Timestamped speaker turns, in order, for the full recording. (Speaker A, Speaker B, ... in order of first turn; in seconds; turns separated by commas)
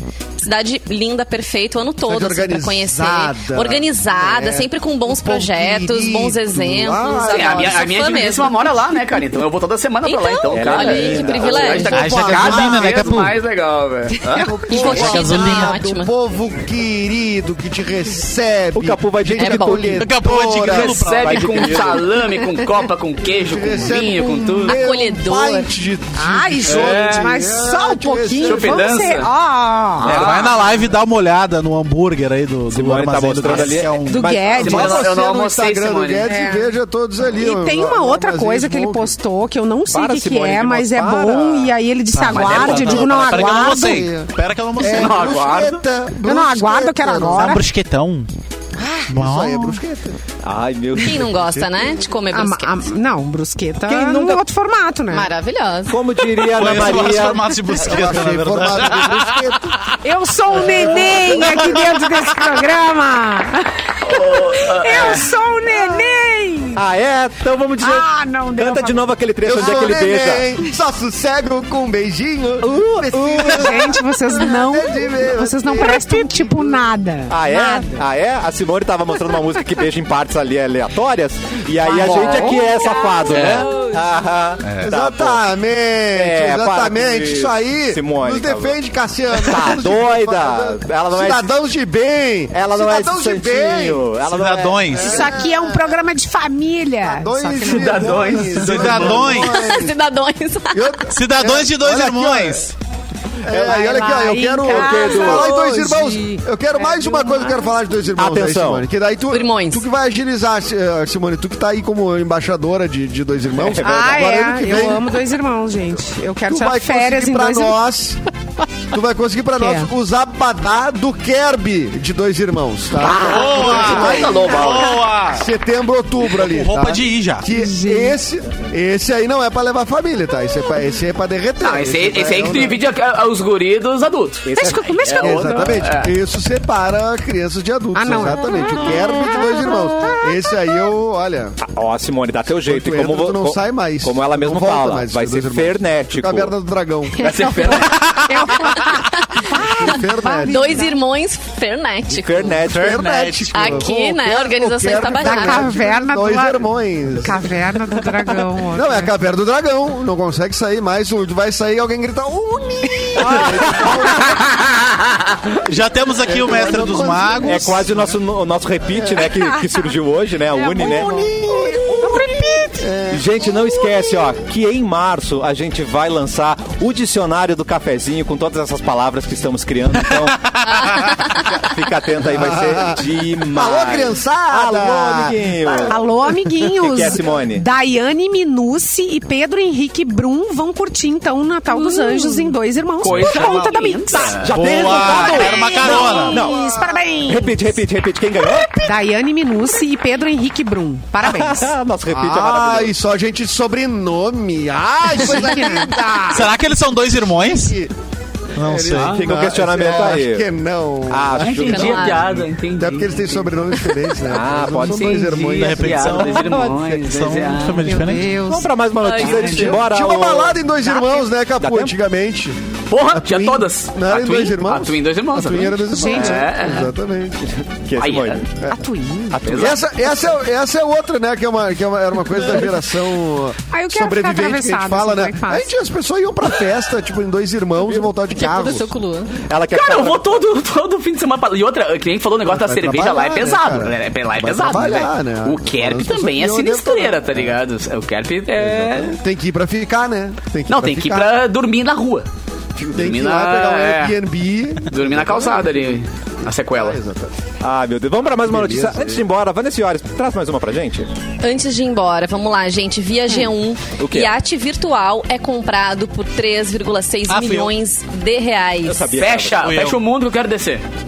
Speaker A: 0.4-8.7, Speaker B: 2.0-8.0, Speaker C: 7.3-14.5, Speaker A: 10.0-12.2, Speaker D: 10.5-12.0, Speaker B: 11.7-13.2, Speaker E: 11.9-13.4, Speaker A: 14.3-16.1, Speaker B: 14.3-21.1, Speaker E: 14.7-15.8, Speaker D: 18.8-20.1, Speaker A: 19.4-19.9, Speaker E: 20.0-21.7, Speaker C: 20.6-24.8, Speaker D: 21.2-22.1, Speaker B: 23.3-29.1, Speaker A: 24.6-25.7, Speaker F: 26.2-30.1, Speaker C: 26.6-27.3, Speaker C: 28.4-29.3, Speaker C: 30.0-30.6, Speaker D: 30.0-30.5, Speaker E: 30.1-34.4, Speaker D: 32.7-35.1, Speaker F: 34.0-35.0, Speaker B: 34.5-39.1, Speaker C: 34.6-36.3, Speaker F: 36.2-36.7, Speaker F: 37.3-44.0, Speaker D: 39.9-41.8, Speaker E: 42.1-45.4, Speaker C: 42.3-43.3, Speaker B: 43.2-47.6, Speaker C: 44.8-45.8, Speaker F: 46.2-47.6, Speaker E: 47.3-48.3, Speaker B: 48.8-50.2, Speaker E: 49.1-49.8, Speaker D: 50.4-51.4, Speaker A: 51.0-52.9, Speaker B: 51.5-51.8, Speaker F: 52.3-55.3, Speaker D: 53.9-54.4, Speaker A: 55.1-56.0, Speaker D: 55.9-57.6, Speaker E: 56.5-59.9, Speaker B: 57.8-59.8, Speaker F: 60.0-66.8, Speaker E: 60.5-62.5, Speaker C: 64.0-65.3, Speaker D: 66.7-70.5, Speaker F: 67.8-69.1, Speaker B: 69.4-76.8, Speaker D: 72.6-74.0, Speaker F: 73.4-78.0, Speaker D: 77.3-85.4, Speaker F: 81.9-82.7, Speaker C: 81.9-82.5, Speaker A: 82.1-84.0, Speaker E: 83.3-83.7, Speaker E: 84.6-84.9, Speaker B: 84.8-94.2, Speaker D: 86.1-88.8, Speaker D: 89.3-91.5, Speaker D: 92.5-95.3, Speaker E: 94.2-95.2, Speaker B: 94.9-95.9, Speaker F: 95.0-98.5, Speaker B: 97.0-100.0, Speaker C: 97.6-99.2, Speaker E: 98.5-99.7, Speaker A: 99.4-101.0, Speaker B: 100.7-102.7, Speaker E: 101.1-102.7, Speaker B: 103.4-115.1, Speaker D: 103.5-105.6, Speaker F: 103.5-107.7, Speaker D: 108.2-108.9, Speaker A: 109.3-109.8, Speaker D: 113.5-114.5, Speaker F: 113.8-117.8, Speaker B: 116.5-118.2, Speaker B: 118.9-132.8, Speaker F: 119.6-119.9, Speaker E: 123.2-125.5, Speaker F: 123.3-124.5, Speaker D: 124.2-124.8, Speaker E: 126.3-127.5, Speaker F: 127.5-128.2, Speaker C: 131.6-134.5, Speaker D: 134.4-135.6, Speaker F: 134.6-135.8, Speaker C: 135.0-136.1, Speaker B: 135.2-141.6, Speaker F: 137.9-139.7, Speaker D: 141.6-146.5, Speaker B: 142.7-147.8, Speaker C: 147.2-148.8, Speaker F: 147.2-151.0, Speaker B: 149.5-150.8, Speaker A: 150.5-152.6, Speaker D: 152.1-153.1, Speaker E: 152.7-153.7, Speaker B: 152.7-157.5, Speaker A: 153.5-155.8, Speaker F: 155.2-159.1, Speaker B: 158.7-164.5, Speaker D: 163.2-164.3, Speaker E: 165.6-168.0, Speaker B: 166.2-168.0, Speaker D: 167.4-171.2, Speaker B: 168.9-169.4, Speaker F: 170.6-172.8, Speaker B: 170.7-173.3, Speaker D: 173.1-186.0, Speaker E: 180.2-180.8, Speaker A: 180.9-181.3, Speaker B: 182.2-185.9, Speaker F: 185.7-194.4, Speaker D: 186.8-187.7, Speaker A: 191.8-192.2, Speaker C: 193.0-194.9, Speaker E: 193.0-193.6, Speaker E: 194.1-196.5, Speaker D: 194.2-196.7, Speaker F: 195.1-197.8, Speaker B: 195.8-197.0, Speaker D: 197.3-198.7, Speaker F: 198.8-201.7, Speaker D: 201.2-202.9, Speaker B: 202.1-206.6, Speaker F: 205.1-206.3, Speaker E: 206.3-207.8, Speaker B: 207.5-207.9, Speaker E: 208.6-209.2, Speaker B: 208.6-216.4, Speaker D: 208.9-210.5, Speaker D: 211.1-212.4, Speaker C: 211.4-213.5, Speaker A: 211.7-212.3, Speaker D: 214.2-215.1, Speaker C: 214.8-218.0, Speaker E: 215.5-218.3, Speaker D: 216.3-216.9, Speaker F: 217.9-218.7, Speaker D: 218.3-220.6, Speaker A: 219.0-219.8, Speaker F: 219.2-219.7, Speaker B: 219.3-227.4, Speaker A: 220.9-221.2, Speaker D: 221.6-222.0, Speaker C: 222.9-226.9, Speaker F: 225.9-226.5, Speaker D: 227.4-228.4, Speaker C: 228.0-228.4, Speaker F: 228.7-229.4, Speaker D: 229.3-229.8, Speaker C: 229.4-229.9, Speaker B: 229.4-239.0, Speaker F: 233.7-235.7, Speaker A: 238.4-239.4, Speaker D: 239.3-240.4, Speaker C: 239.7-249.2, Speaker B: 242.4-247.6, Speaker B: 248.6-251.3, Speaker C: 250.7-252.3, Speaker B: 252.8-257.3, Speaker C: 252.9-254.2, Speaker C: 254.9-257.0, Speaker D: 257.6-261.1, Speaker B: 258.5-259.2, Speaker A: 261.4-269.1, Speaker D: 264.0-264.3, Speaker E: 267.3-267.7, Speaker D: 268.8-269.7, Speaker C: 269.2-270.8, Speaker E: 269.6-270.0